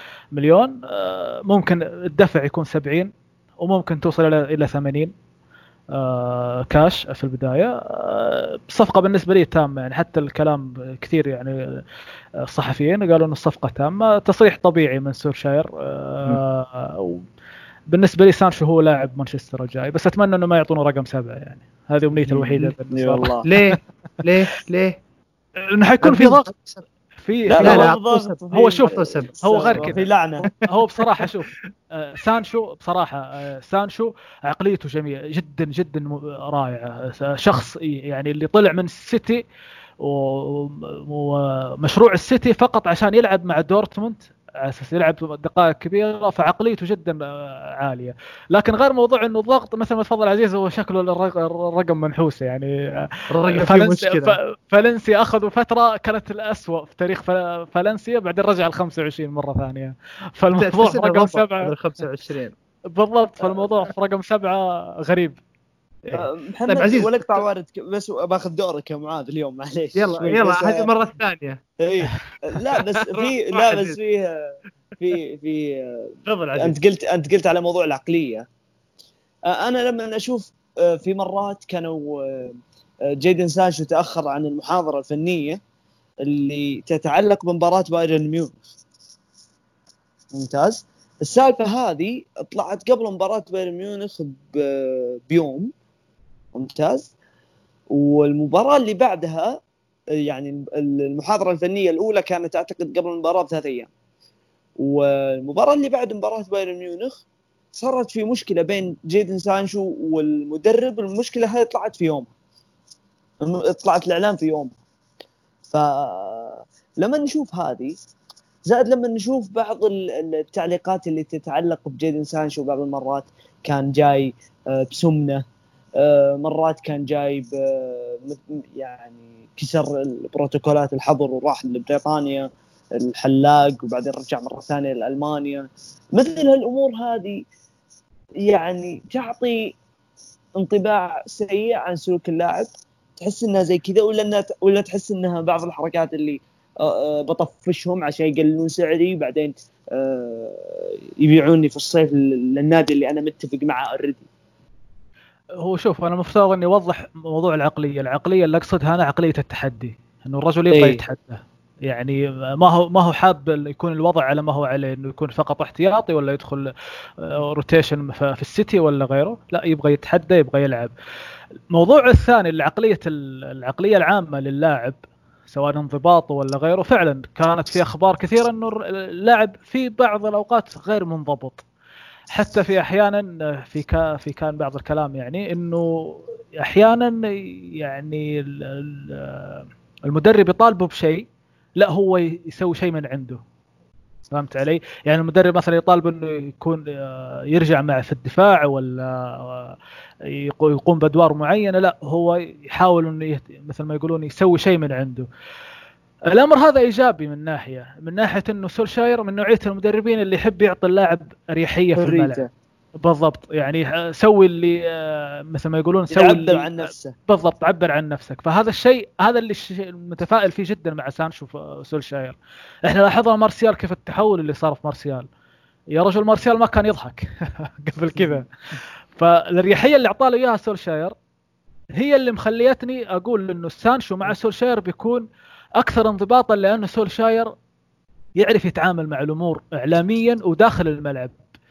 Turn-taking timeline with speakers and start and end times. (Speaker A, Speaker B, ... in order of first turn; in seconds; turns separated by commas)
Speaker A: 0.3-5.1, Speaker A: 5.9-11.8, Speaker A: 12.4-17.2, Speaker A: 17.9-23.8, Speaker B: 22.3-22.7, Speaker C: 22.9-23.5, Speaker B: 23.4-25.0, Speaker A: 25.6-26.5, Speaker B: 26.0-26.8, Speaker A: 27.2-28.0, Speaker C: 27.5-30.5, Speaker B: 27.6-29.9, Speaker A: 28.5-39.4, Speaker A: 40.0-61.7, Speaker B: 53.3-54.4, Speaker B: 60.6-62.5, Speaker A: 62.9-65.4, Speaker B: 66.1-67.1, Speaker C: 66.1-70.9, Speaker B: 69.9-71.6, Speaker C: 71.8-78.5, Speaker B: 73.0-74.0, Speaker B: 76.2-76.8, Speaker C: 79.5-85.6, Speaker C: 86.2-88.6, Speaker C: 90.3-95.7, Speaker C: 96.5-97.1, Speaker C: 97.9-99.6, Speaker C: 100.2-103.9, Speaker C: 104.8-107.2, Speaker C: 107.7-112.3, Speaker C: 113.4-114.7, Speaker C: 115.7-118.0, Speaker C: 118.6-125.4, Speaker C: 126.0-137.4, Speaker C: 138.4-139.7, Speaker C: 140.6-154.3, Speaker A: 155.6-170.9, Speaker C: 160.7-161.0, Speaker A: 171.7-175.0, Speaker A: 175.5-181.6, Speaker A: 182.3-191.2, Speaker A: 191.8-193.4, Speaker A: 194.3-205.3, Speaker A: 206.3-212.4, Speaker C: 211.9-212.5, Speaker A: 213.0-225.2, Speaker C: 216.1-217.1, Speaker A: 225.9-228.5, Speaker A: 229.1-231.1, Speaker A: 232.0-235.2, Speaker A: 235.8-237.5, Speaker A: 238.4-241.4